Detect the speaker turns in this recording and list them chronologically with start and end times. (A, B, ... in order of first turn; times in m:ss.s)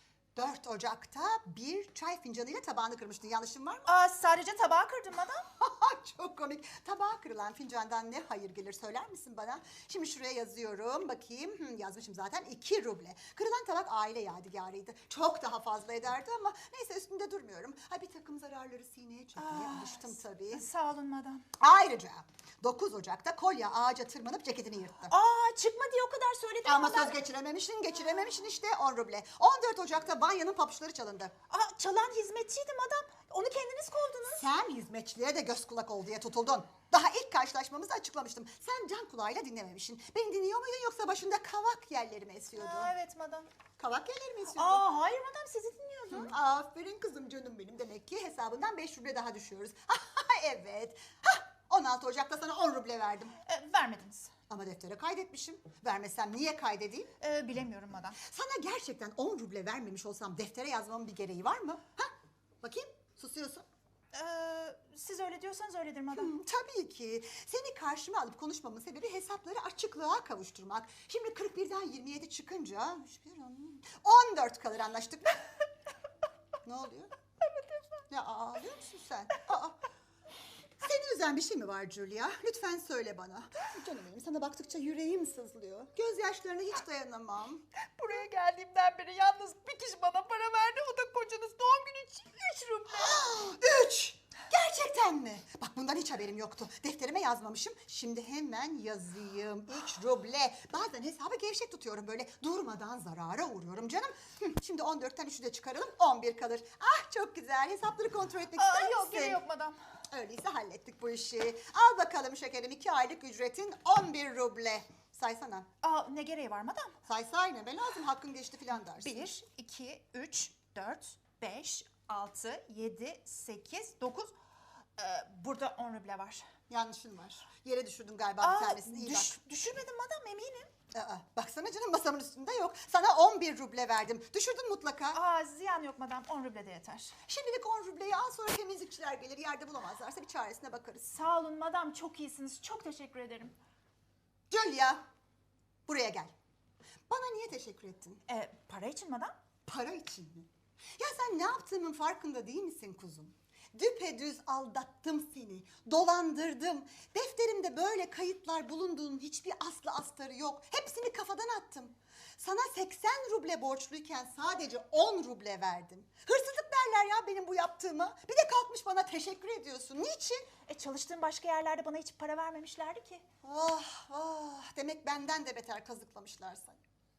0:00.4-0:03.9 A
0:03.9-0:05.4 B
0:05.6-0:20.6 A
0:19.4-0:21.4 B
0:21.6-0:25.1 A
0:25.1-0:27.2 B
0:26.6-0:31.3 A
0:31.5-0:34.4 B
0:34.3-0:42.9 A
0:42.6-0:43.5 B
0:43.8-0:44.8 A
0:44.5-0:46.3 B
0:46.1-0:53.3 A
0:53.4-0:54.3 B
0:54.5-0:57.1 A
0:57.2-0:58.2 B
0:58.2-1:02.1 A
1:02.6-1:03.6 A
1:04.1-1:06.4 B
1:06.2-1:15.4 A
1:16.6-1:17.1 A
1:18.1-1:19.8 A
1:20.8-1:27.6 A
1:28.0-1:33.2 B
1:32.9-1:49.4 A
1:48.6-1:49.8 B
1:50.1-1:55.7 A
1:55.8-1:56.9 B
1:57.1-1:59.3 A
1:58.9-2:04.3 B
2:05.0-2:06.5 B
2:06.7-2:09.4 A
2:08.4-2:10.7 B
2:10.9-2:15.2 A
2:15.1-2:17.2 B
2:17.3-2:21.1 A
2:21.0-2:23.6 B
2:24.5-2:25.0 A
2:25.9-2:26.3 A
2:27.1-2:28.2 A
2:28.3-2:29.4 B
2:29.7-2:30.5 A
2:31.0-2:50.5 A
2:50.7-2:53.2 B
2:53.4-2:56.8 A